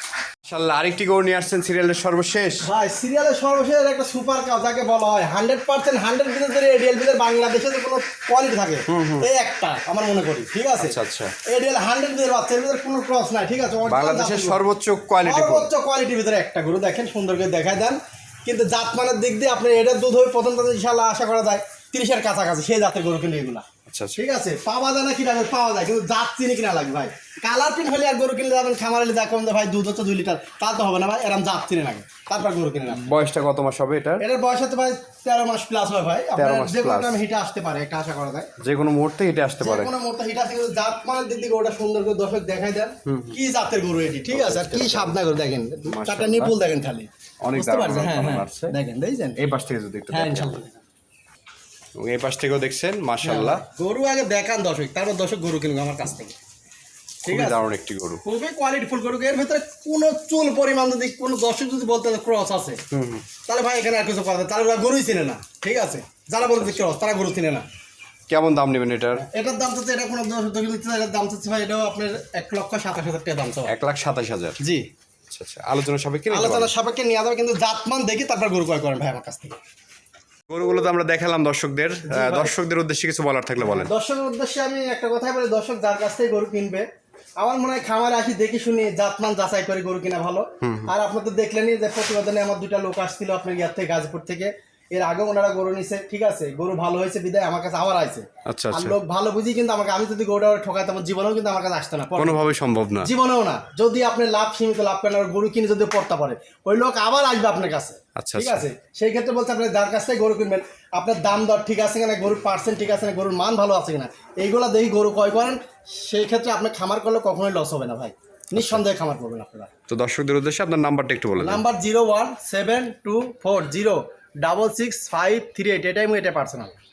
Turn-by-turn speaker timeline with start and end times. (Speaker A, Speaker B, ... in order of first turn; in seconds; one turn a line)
Speaker A: 0.5-2.7
Speaker B: 2.6-14.6
Speaker A: 8.9-9.3
Speaker A: 10.8-11.3
Speaker A: 13.9-15.7
Speaker B: 15.2-23.7
Speaker A: 23.9-24.2
Speaker B: 24.2-33.1
Speaker A: 32.9-34.2
Speaker B: 34.2-38.5
Speaker A: 36.4-37.2
Speaker A: 38.6-39.9
Speaker B: 39.6-49.4
Speaker A: 43.1-43.4
Speaker A: 44.3-45.2
Speaker A: 45.9-46.5
Speaker A: 47.4-48.8
Speaker A: 49.4-50.6
Speaker B: 50.1-50.8
Speaker A: 52.0-53.6
Speaker B: 53.2-56.4
Speaker A: 57.3-58.2
Speaker B: 57.3-57.6
Speaker B: 58.2-62.8
Speaker A: 62.9-63.3
Speaker B: 63.5-67.7
Speaker A: 66.4-66.8
Speaker A: 68.3-69.2
Speaker B: 69.2-73.7
Speaker A: 73.7-74.6
Speaker B: 74.6-74.8
Speaker A: 75.3-76.7
Speaker B: 76.3-79.6
Speaker A: 80.5-83.9
Speaker B: 82.0-82.6
Speaker B: 83.6-86.8
Speaker B: 87.4-119.7
Speaker A: 90.6-90.9
Speaker A: 98.5-99.0
Speaker A: 102.2-103.1
Speaker A: 108.2-108.7
Speaker A: 118.6-118.8
Speaker A: 119.9-121.6
Speaker B: 121.4-126.8